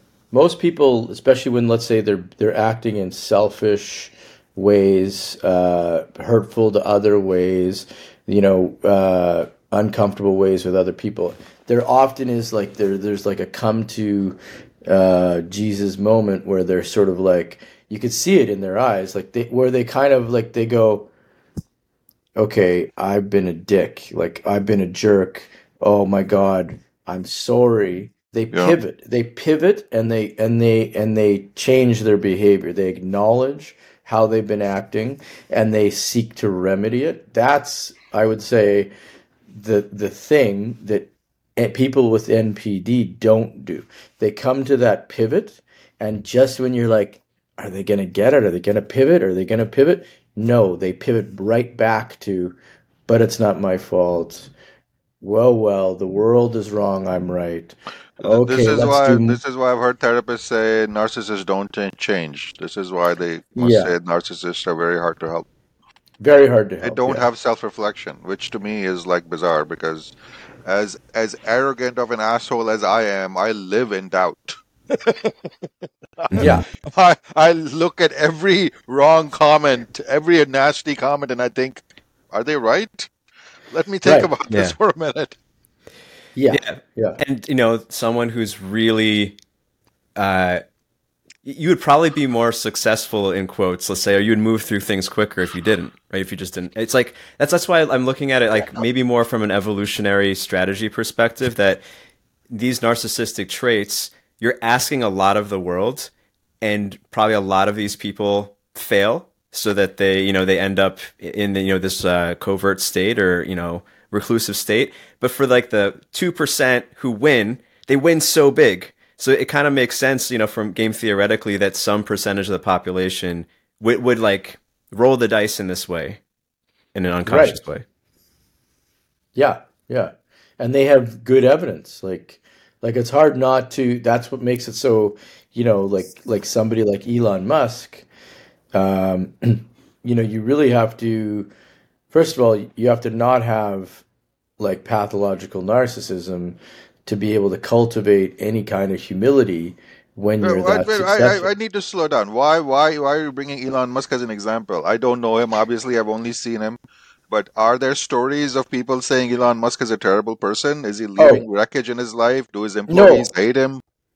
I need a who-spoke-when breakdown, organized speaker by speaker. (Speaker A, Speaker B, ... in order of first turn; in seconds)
Speaker A: 0.3-14.4, 14.9-21.1, 22.4-38.9, 39.5-52.6, 53.1-54.5, 55.2-59.4, 63.6-63.9, 66.2-67.3, 76.4-76.7, 84.0-84.3, 86.3-87.2, 127.3-127.6, 129.3-138.1, 138.8-141.5, 142.1-144.0, 144.6-151.5, 161.2-161.4, 162.9-163.3
Speaker B: 58.2-65.5, 66.8-70.1, 70.7-75.5, 76.7-83.1, 83.7-85.4, 150.4-156.8, 157.3-163.8
Speaker C: 76.3-76.6, 84.5-84.8, 86.5-89.4, 90.2-90.6, 91.4-101.8, 102.5-106.1, 106.6-126.2, 126.9-127.8